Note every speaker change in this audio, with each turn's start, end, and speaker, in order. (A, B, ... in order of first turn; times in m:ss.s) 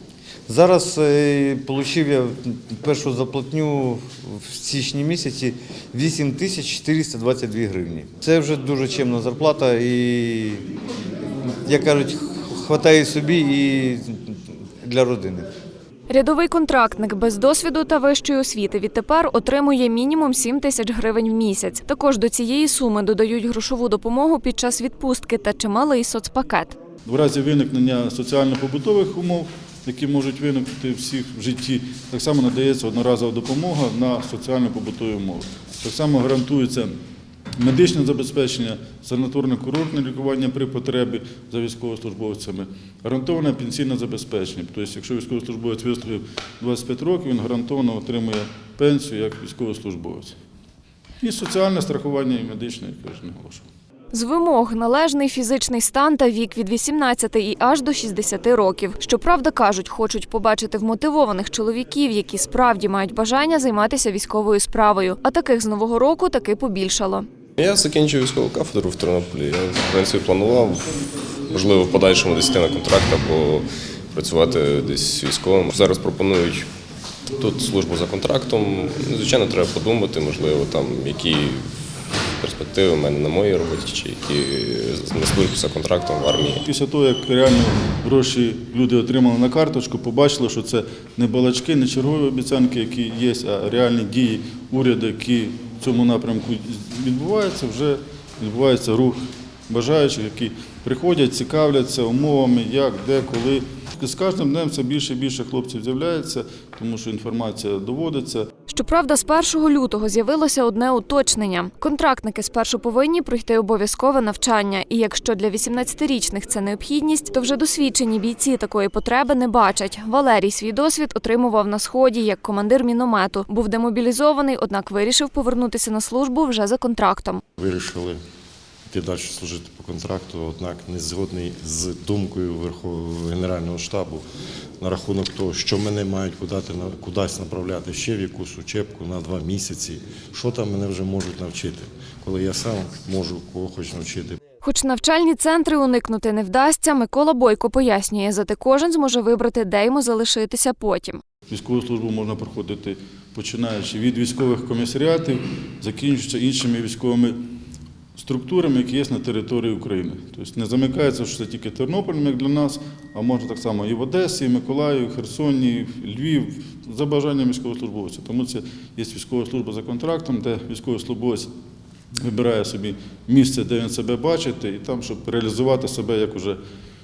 0:00.5-0:10.6 A
0:11.6-0:15.5 A
0:16.1-0:26.8 B
0:27.0-0:37.0 C
0:37.6-0:50.4 C
0:51.2-0:53.7 C
0:54.1-1:07.3 B
1:07.6-1:16.7 D
1:17.4-1:21.7 D
1:22.4-1:26.6 D
1:26.6-1:48.5 C
1:48.7-2:07.4 B
2:07.6-2:08.2 E
2:08.9-2:14.2 E
2:14.8-2:24.4 E
2:24.6-2:31.2 B
2:31.5-2:37.4 C
2:38.2-2:51.5 C
2:52.2-2:56.6 C